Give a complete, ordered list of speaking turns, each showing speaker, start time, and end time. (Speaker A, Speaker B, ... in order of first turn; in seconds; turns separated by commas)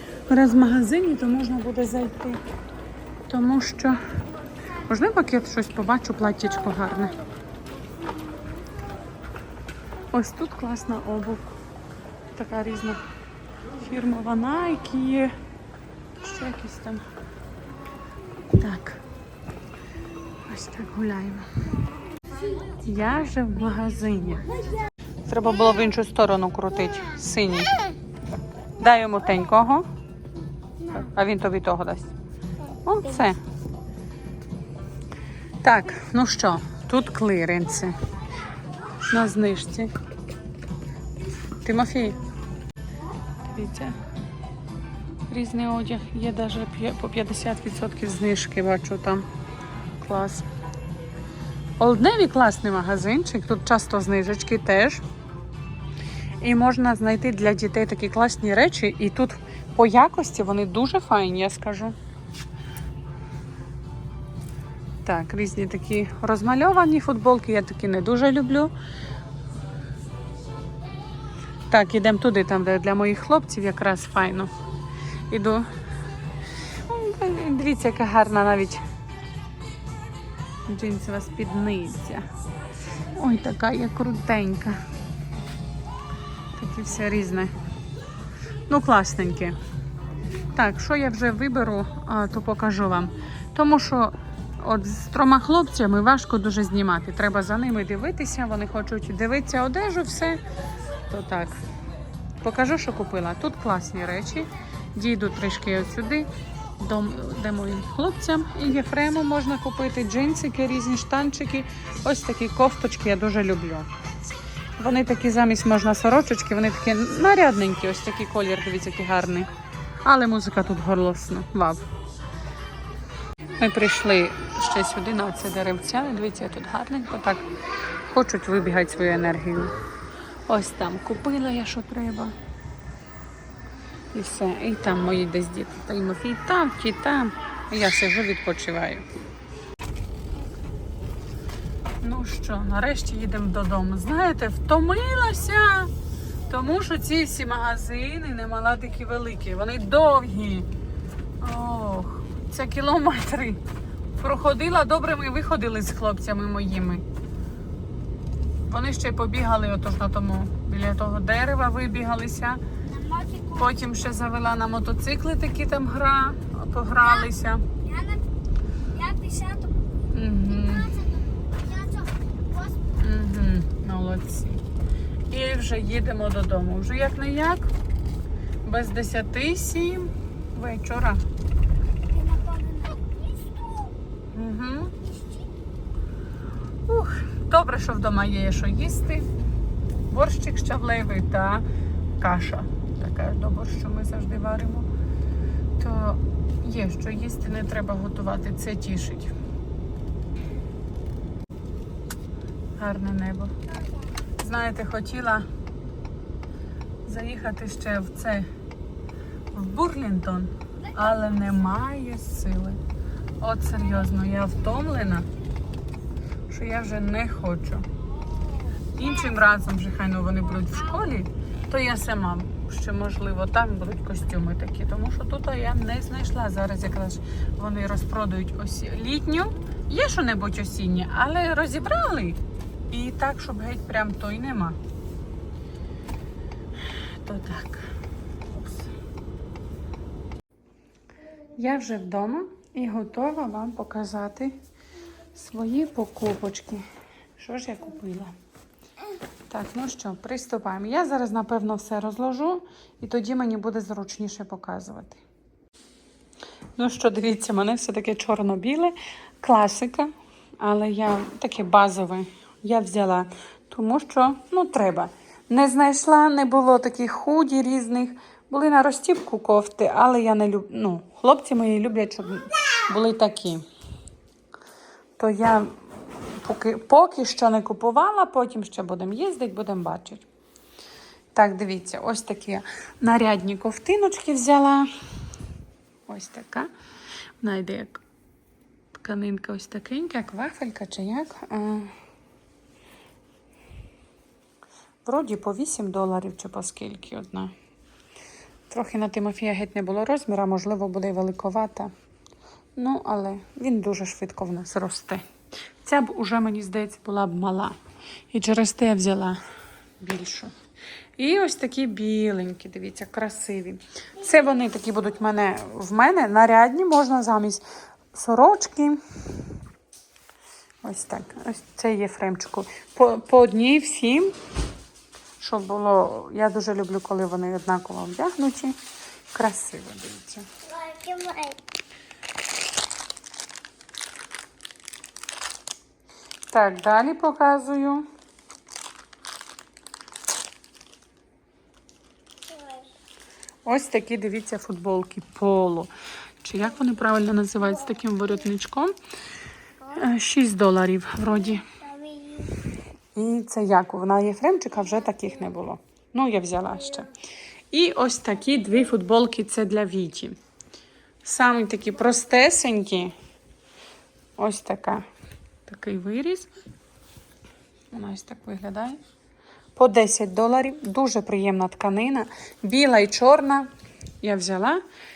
Speaker A: 0.3-2.4, Speaker A: 3.3-4.0, Speaker A: 4.9-7.2, Speaker A: 10.1-11.5, Speaker A: 12.3-13.0, Speaker A: 13.8-15.3, Speaker A: 16.2-17.0, Speaker A: 18.6-19.0, Speaker A: 20.4-21.5, Speaker A: 22.8-24.5, Speaker A: 25.2-27.7, Speaker A: 28.8-29.9, Speaker A: 30.9-32.1, Speaker A: 32.8-33.4, Speaker A: 35.6-38.0, Speaker A: 39.0-39.9, Speaker A: 41.6-42.2, Speaker A: 43.5-43.9, Speaker A: 45.3-49.2, Speaker A: 50.0-50.5, Speaker A: 51.8-55.0, Speaker A: 56.4-61.9, Speaker A: 65.0-68.7, Speaker A: 71.7-74.5, Speaker A: 75.3-75.7, Speaker A: 76.9-78.8, Speaker A: 80.7-82.2, Speaker A: 83.1-84.8, Speaker A: 86.5-87.5, Speaker A: 88.7-89.6, Speaker A: 90.5-100.4, Speaker A: 101.1-101.6, Speaker A: 102.4-113.9, Speaker A: 114.8-119.5, Speaker A: 120.0-121.8, Speaker A: 123.6-127.4, Speaker A: 128.1-129.7, Speaker A: 130.5-132.3, Speaker A: 134.1-139.1, Speaker A: 142.0-145.9, Speaker A: 146.5-150.7, Speaker A: 151.4-153.6, Speaker A: 154.2-157.0, Speaker A: 158.7-162.6, Speaker B: 162.9-163.6, Speaker A: 163.5-167.6, Speaker B: 167.8-168.2, Speaker B: 168.9-169.8, Speaker A: 170.1-170.9, Speaker B: 170.7-172.9, Speaker A: 173.0-174.6, Speaker A: 175.3-177.7, Speaker A: 178.6-181.2, Speaker B: 182.1-183.9, Speaker A: 184.3-184.9, Speaker B: 185.0-185.4, Speaker A: 186.9-189.3, Speaker A: 190.1-191.6, Speaker A: 192.2-194.9, Speaker A: 195.8-199.3, Speaker A: 202.8-203.5, Speaker A: 204.4-205.4, Speaker A: 207.1-208.5, Speaker A: 209.5-212.8, Speaker A: 213.4-215.3, Speaker A: 216.5-217.9, Speaker B: 218.3-219.0, Speaker A: 218.9-232.4, Speaker A: 232.9-234.8, Speaker A: 237.2-237.9, Speaker A: 241.6-244.6, Speaker A: 245.3-246.8, Speaker A: 247.4-248.3, Speaker A: 249.5-255.2, Speaker A: 256.8-273.6, Speaker A: 275.2-275.7, Speaker A: 276.4-280.2, Speaker A: 281.3-284.9, Speaker A: 286.1-286.7, Speaker A: 287.4-288.0, Speaker A: 288.9-291.9, Speaker A: 295.1-297.5, Speaker A: 298.7-301.9, Speaker A: 302.8-305.2, Speaker A: 305.8-307.8, Speaker A: 308.3-309.4, Speaker A: 310.0-310.5, Speaker A: 311.2-317.6, Speaker A: 318.1-319.0, Speaker A: 320.8-324.3, Speaker A: 325.4-328.8, Speaker A: 329.3-330.5, Speaker B: 330.7-331.6, Speaker A: 336.5-338.1, Speaker B: 342.5-342.8, Speaker A: 343.6-345.9, Speaker A: 346.4-348.9, Speaker A: 349.9-351.7, Speaker B: 351.8-352.5, Speaker A: 353.1-357.1, Speaker A: 357.7-360.4, Speaker A: 361.2-363.1, Speaker A: 364.4-365.0, Speaker A: 365.7-366.5, Speaker A: 367.9-369.0, Speaker A: 369.8-373.7, Speaker A: 374.2-374.8